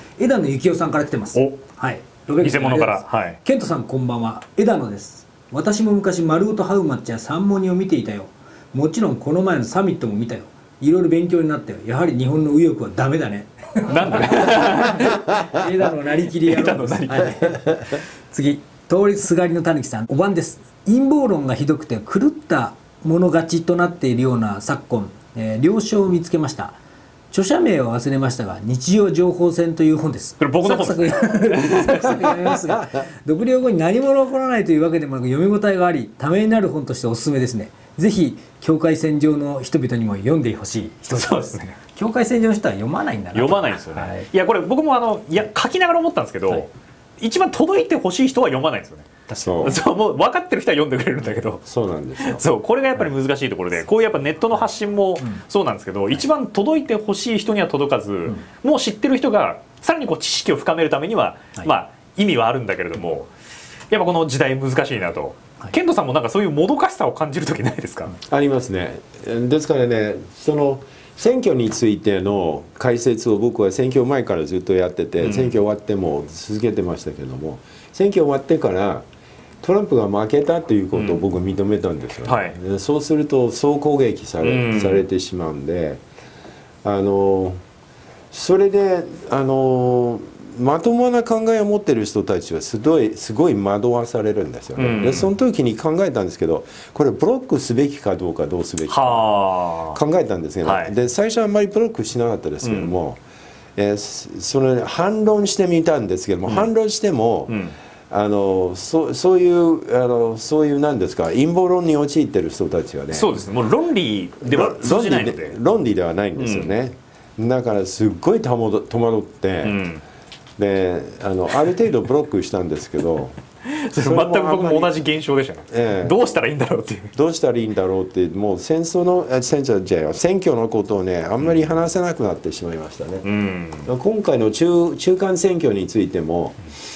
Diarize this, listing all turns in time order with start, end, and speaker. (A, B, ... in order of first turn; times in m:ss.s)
0:00.2-0:26.8 A
0:01.3-0:01.6 B
0:02.4-0:03.4 B
0:13.9-0:15.2 B
0:16.3-0:17.5 B
0:27.3-0:44.3 A
0:30.4-0:32.4 B
0:41.1-0:41.7 B
0:43.3-0:46.7 B
0:47.2-0:49.1 B
0:49.3-0:49.8 A
0:49.4-0:49.8 C
0:49.6-0:51.6 B
0:51.7-0:52.4 C
0:52.2-1:03.3 B
1:03.9-1:08.2 B
1:08.3-1:19.1 C
1:15.2-1:15.6 B
1:19.6-1:26.0 C
1:20.9-1:21.2 B
1:22.3-1:22.6 B
1:24.4-1:25.0 B
1:26.8-1:27.6 C
1:28.3-1:39.3 C
1:34.8-1:35.3 B
1:38.9-1:40.0 B
1:39.9-1:43.2 C
1:40.6-1:40.9 B
1:42.6-1:42.9 B
1:43.8-1:53.3 C
1:47.5-1:47.8 B
1:53.1-1:55.6 B
1:54.4-1:59.8 C
1:56.4-1:56.7 B
1:59.6-2:00.0 B
2:00.6-2:03.4 C
2:03.6-2:07.2 B
2:04.0-2:05.0 C
2:05.7-2:06.2 C
2:07.2-2:13.3 C
2:13.2-2:13.9 B
2:13.8-2:16.6 C